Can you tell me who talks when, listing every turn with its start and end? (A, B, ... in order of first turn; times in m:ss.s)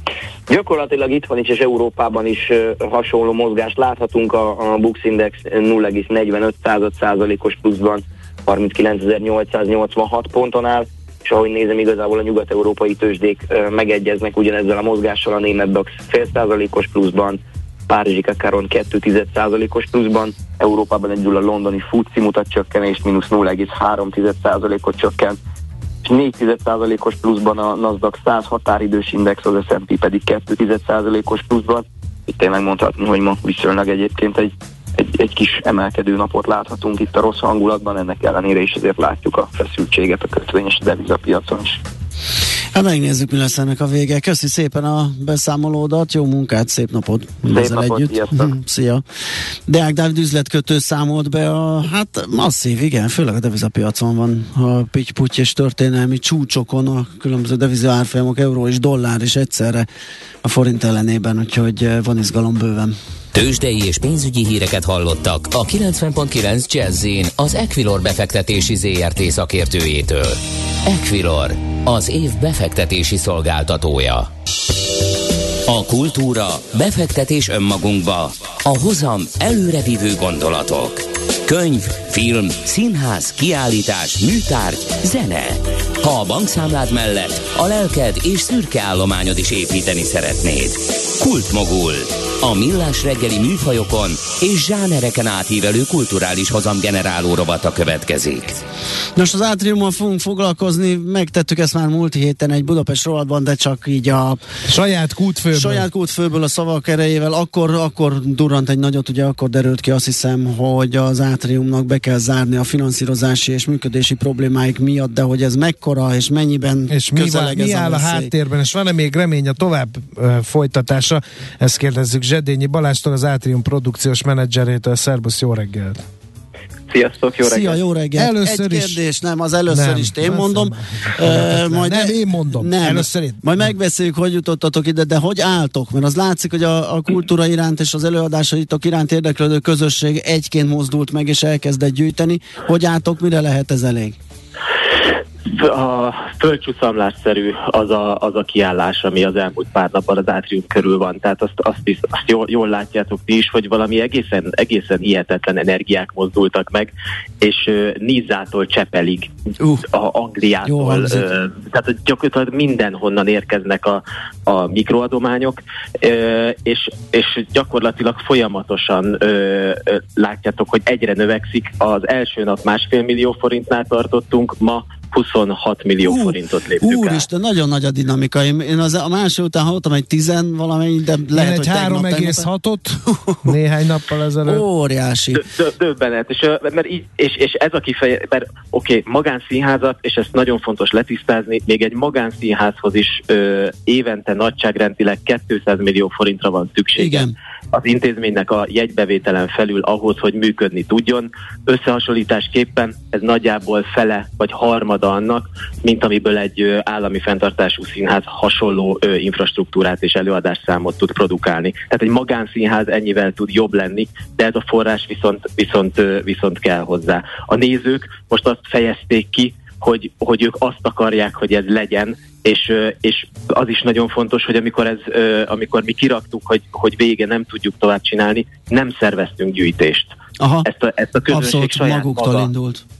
0:00.5-0:25.4 A
0:26.0-0:41.8 A
0:42.7-0:49.0 B
0:47.5-0:48.5 A
0:49.7-0:59.9 B
1:00.4-1:02.9 B
1:03.3-1:14.3 C
1:15.7-1:38.6 C
1:39.2-1:44.4 B
1:44.7-1:45.8 D
1:45.5-1:58.3 B
1:56.9-2:06.0 D
2:06.9-2:07.8 E
2:07.4-2:24.2 B
2:08.2-2:09.0 D
2:09.7-2:13.7 D
2:25.5-2:39.3 E
2:39.6-2:39.8 B
2:39.9-2:57.2 E
2:40.6-2:41.3 B
2:56.0-3:02.4 B
3:01.3-3:04.6 D
3:03.0-3:03.5 B
3:04.4-3:05.4 B
3:05.4-3:50.1 E
3:17.0-3:17.3 B
3:50.4-3:50.7 B
3:50.6-3:52.5 E
3:51.3-3:52.8 B